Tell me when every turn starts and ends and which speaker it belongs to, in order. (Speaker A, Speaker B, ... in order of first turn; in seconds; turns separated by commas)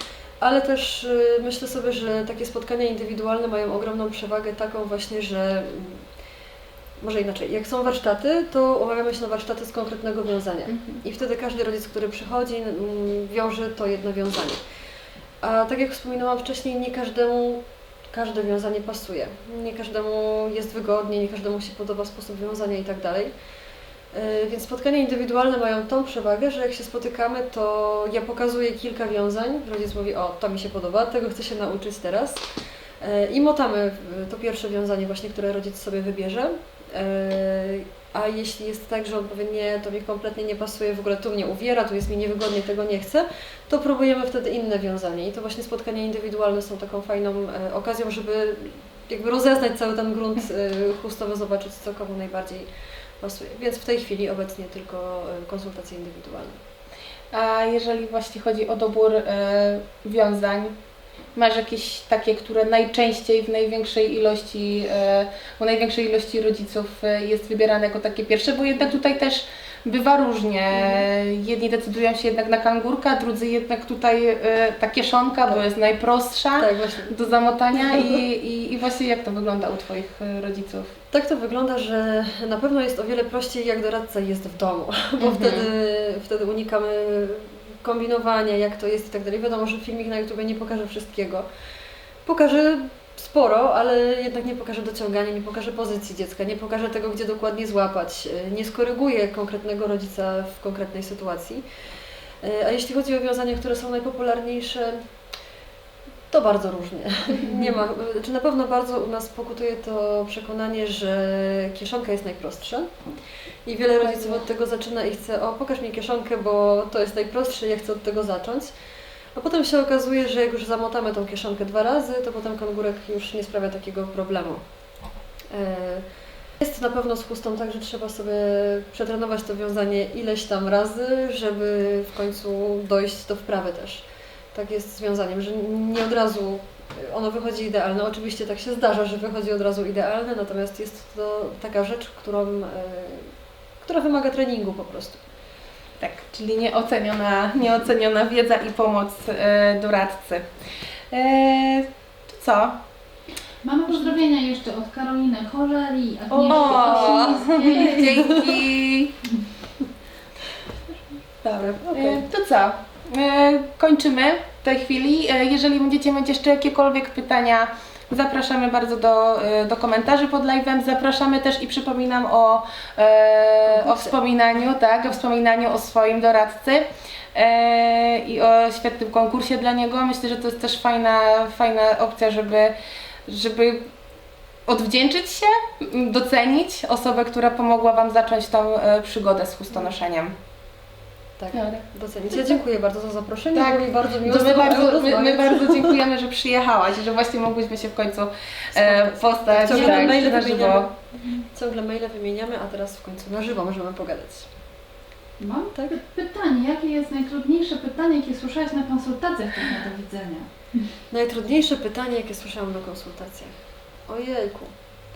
Speaker A: 0.4-6.0, Speaker A: 7.0-14.6, Speaker B: 10.7-11.0, Speaker A: 15.4-23.3, Speaker A: 24.1-32.5, Speaker A: 33.0-52.7, Speaker A: 53.2-56.6, Speaker B: 57.3-60.7, Speaker B: 61.3-80.9, Speaker A: 76.6-77.1, Speaker A: 77.9-78.2, Speaker A: 81.1-91.5, Speaker B: 85.2-85.7, Speaker A: 92.2-101.6, Speaker A: 102.4-105.0, Speaker A: 106.3-112.9, Speaker A: 113.6-118.7, Speaker A: 119.3-124.6, Speaker A: 125.5-126.0, Speaker A: 126.6-145.2, Speaker B: 146.0-150.4, Speaker B: 151.1-152.8, Speaker C: 153.6-158.4, Speaker B: 156.3-159.2, Speaker A: 156.5-158.5, Speaker B: 161.4-182.7, Speaker A: 161.6-162.2, Speaker A: 173.7-174.1, Speaker B: 183.3-183.9, Speaker B: 184.7-190.3, Speaker A: 191.4-195.9, Speaker B: 191.5-191.8, Speaker B: 193.5-200.9, Speaker A: 198.7-200.9, Speaker A: 201.4-204.5, Speaker C: 205.4-210.9, Speaker A: 211.1-213.6, Speaker A: 214.1-214.8